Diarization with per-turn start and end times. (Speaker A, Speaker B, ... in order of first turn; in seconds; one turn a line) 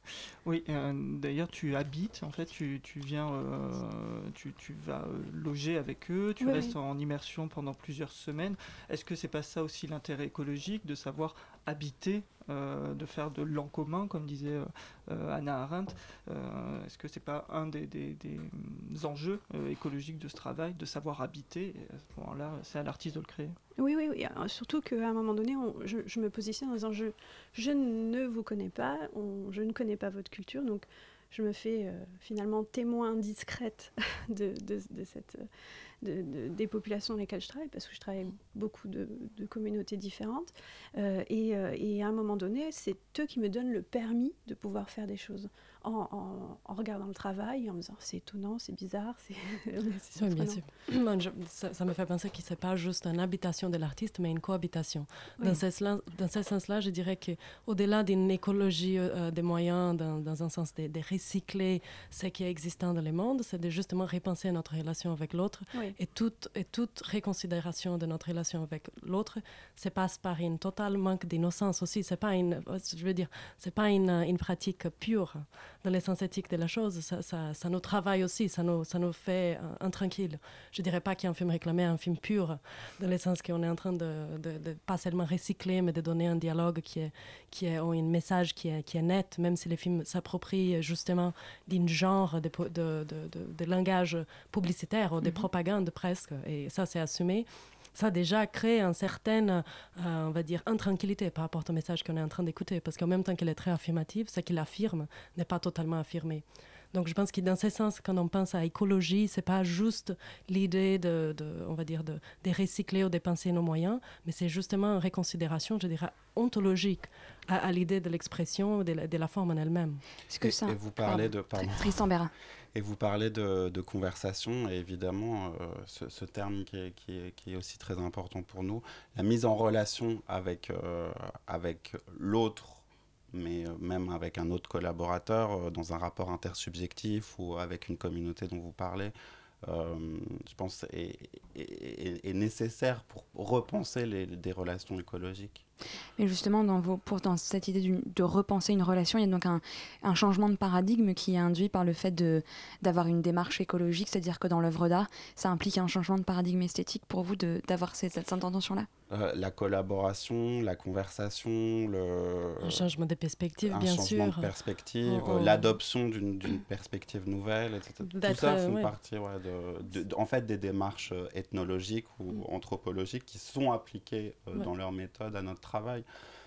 Speaker A: 0.4-23.6
Speaker B: 6.4-6.8
Speaker B: 23.8-35.5
Speaker B: 36.0-50.6
Speaker C: 50.2-120.0
Speaker D: 120.3-122.3
Speaker E: 120.4-122.1
Speaker E: 122.7-145.6
Speaker D: 146.2-158.9
Speaker E: 159.1-162.9
Speaker C: 162.6-164.5
Speaker E: 163.6-176.1
Speaker C: 165.0-165.7
Speaker C: 168.1-168.9